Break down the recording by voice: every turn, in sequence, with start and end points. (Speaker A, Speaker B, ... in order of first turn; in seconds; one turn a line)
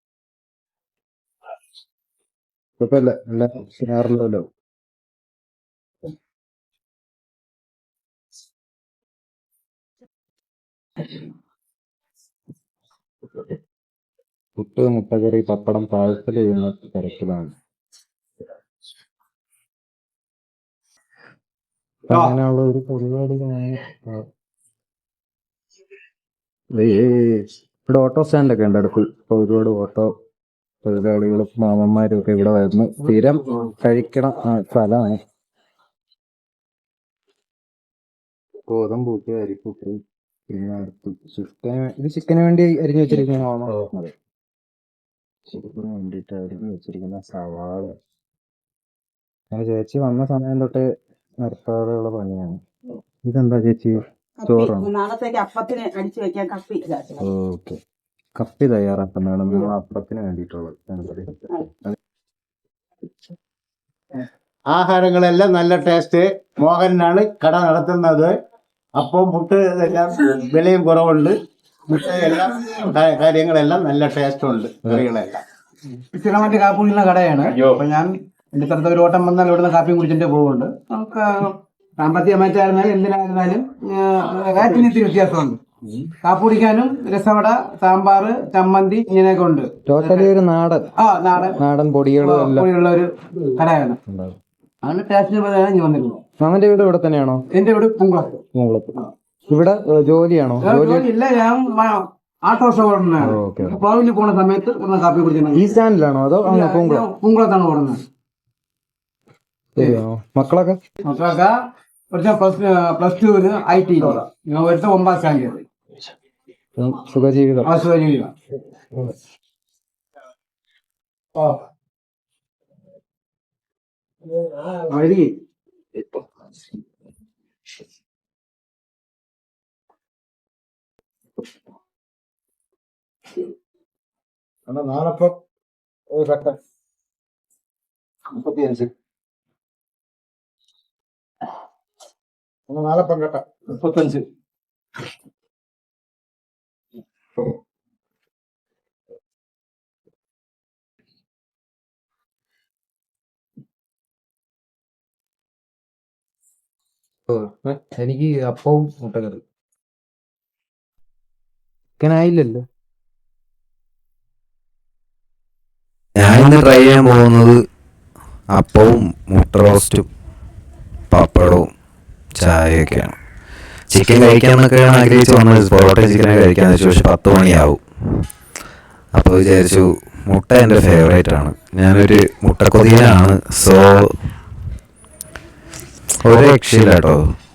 Speaker A: 2.8-4.5
Speaker A: 14.6-17.5
Speaker A: 22.1-24.3
Speaker A: 26.7-30.1
Speaker A: 30.8-35.2
Speaker A: 38.7-44.1
Speaker A: 45.5-48.0
Speaker A: 49.5-50.9
Speaker A: 51.4-52.6
Speaker A: 53.2-54.9
Speaker B: 54.4-57.2
Speaker A: 57.2-57.8
Speaker A: 58.4-62.0
Speaker C: 64.7-68.3
Speaker C: 69.0-71.3
Speaker C: 71.9-75.4
Speaker D: 76.1-85.6
Speaker C: 77.5-77.8
Speaker D: 86.2-90.3
Speaker A: 89.9-90.9
Speaker D: 91.0-91.6
Speaker A: 91.5-92.7
Speaker D: 92.2-94.0
Speaker A: 94.1-94.4
Speaker D: 94.8-96.2
Speaker A: 96.4-97.4
Speaker D: 97.5-98.4
Speaker A: 98.5-101.1
Speaker D: 100.6-105.8
Speaker A: 103.2-103.8
Speaker A: 105.5-107.0
Speaker D: 106.4-108.0
Speaker A: 109.8-110.8
Speaker D: 111.0-111.6
Speaker D: 112.1-115.6
Speaker A: 116.8-117.7
Speaker D: 117.6-118.3
Speaker D: 124.4-125.3
Speaker A: 134.7-135.3
Speaker A: 136.1-136.6
Speaker C: 138.4-138.9
Speaker A: 142.7-143.4
Speaker C: 143.0-144.2
Speaker A: 157.3-159.4
Speaker A: 162.0-162.7
Speaker E: 166.2-167.6
Speaker E: 168.5-170.1
Speaker E: 171.1-171.7
Speaker E: 172.4-173.2
Speaker E: 173.9-177.8
Speaker E: 179.1-184.1
Speaker E: 186.2-187.2